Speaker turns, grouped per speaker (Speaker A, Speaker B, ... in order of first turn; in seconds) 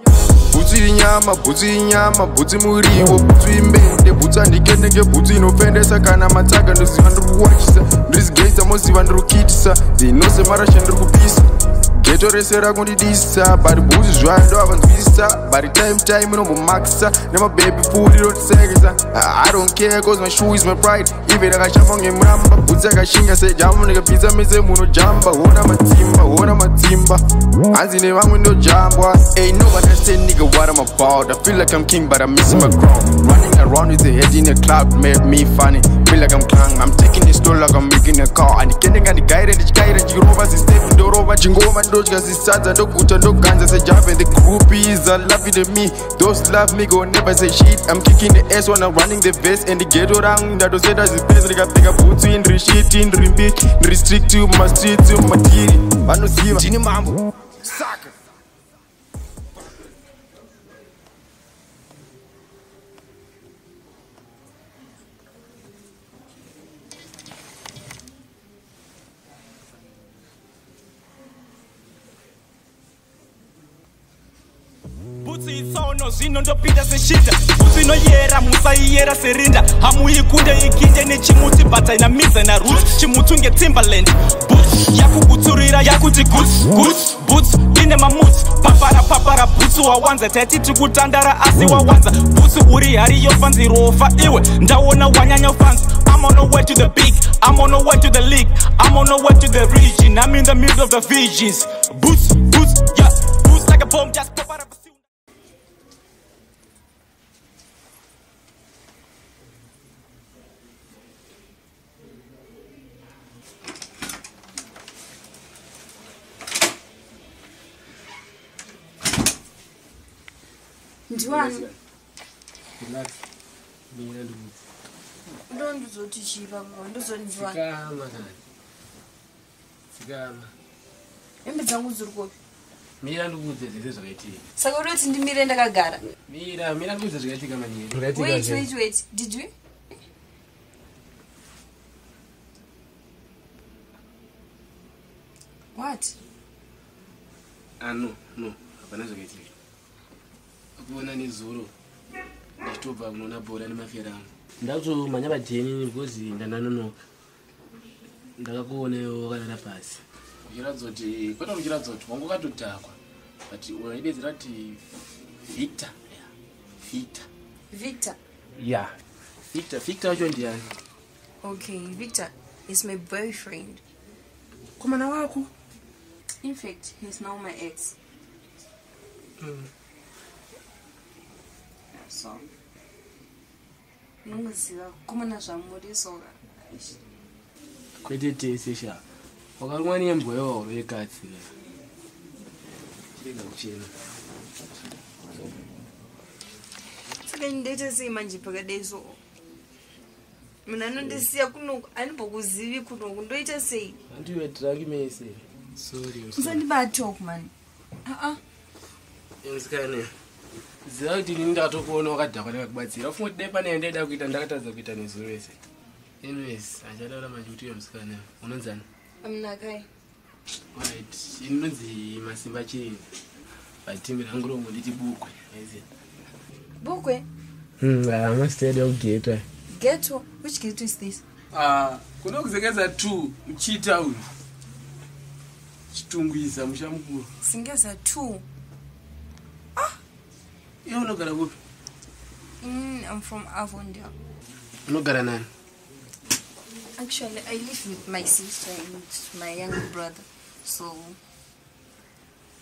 Speaker A: 0.5-58.1
Speaker B: 75.2-105.0
Speaker C: 121.1-121.7, 125.5-127.6, 131.4-132.3, 134.6-136.0, 138.1-139.5, 145.7-146.2, 167.7-168.2, 171.4-173.8, 176.4-177.9, 181.9-182.4, 184.2-187.0, 197.2-199.2, 200.6-204.0, 206.3-207.5, 208.0-208.4, 219.2-219.9, 226.8-227.2, 229.7-231.2, 237.4-238.4, 242.6-244.1, 247.0-251.2
Speaker D: 121.2-121.7, 122.8-123.1, 123.9-124.6, 127.3-128.4, 129.9-130.5, 133.0-134.4, 136.3-138.7, 147.8-149.5, 150.8-151.7, 152.6-156.9, 158.4-163.0, 163.5-164.8, 165.5-166.3, 166.8-167.3, 168.6-168.9, 169.5-170.7, 174.8-175.5, 179.4-179.7, 188.0-189.0, 189.6-191.5, 193.2-193.9, 195.3-195.6, 204.1-206.6, 209.4-210.1, 210.8-215.6, 216.2-218.8, 220.7-223.0, 223.8-225.8, 227.8-229.4, 231.5-234.3, 235.9-237.3, 240.8-241.5, 244.9-245.5